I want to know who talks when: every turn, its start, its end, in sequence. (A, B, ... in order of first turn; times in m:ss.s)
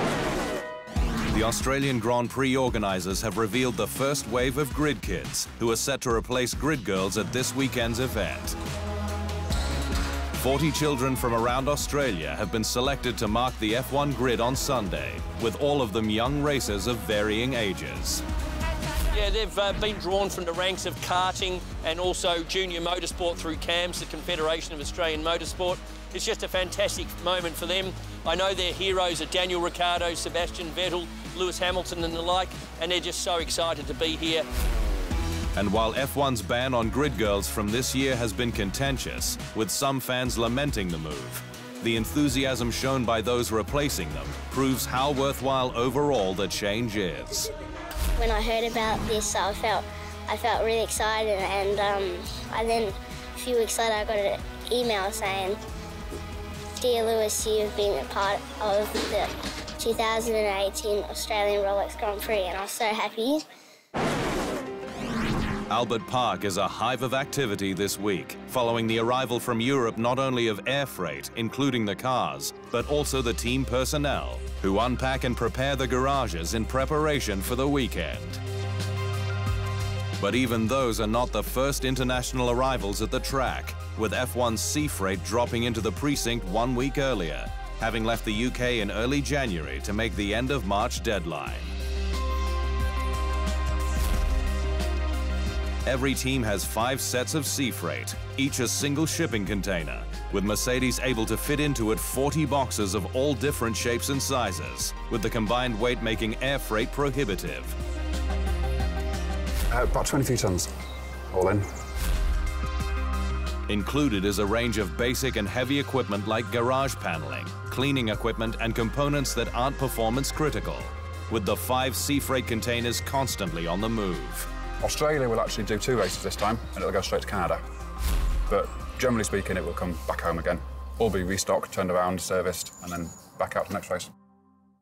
0:01.3-0:08.6 A
0:10.4-0:18.2 A
0:19.1-0:34.4 B
0:35.6-0:47.5 A
0:48.2-0:55.6 C
0:56.8-1:03.5 C
1:05.7-1:18.4 A
1:20.2-1:31.7 A
1:35.8-1:47.8 A
1:49.7-1:50.7 D
1:51.3-1:51.7 D
1:53.7-2:04.5 A
2:04.8-2:07.6 D
2:08.5-2:14.1 D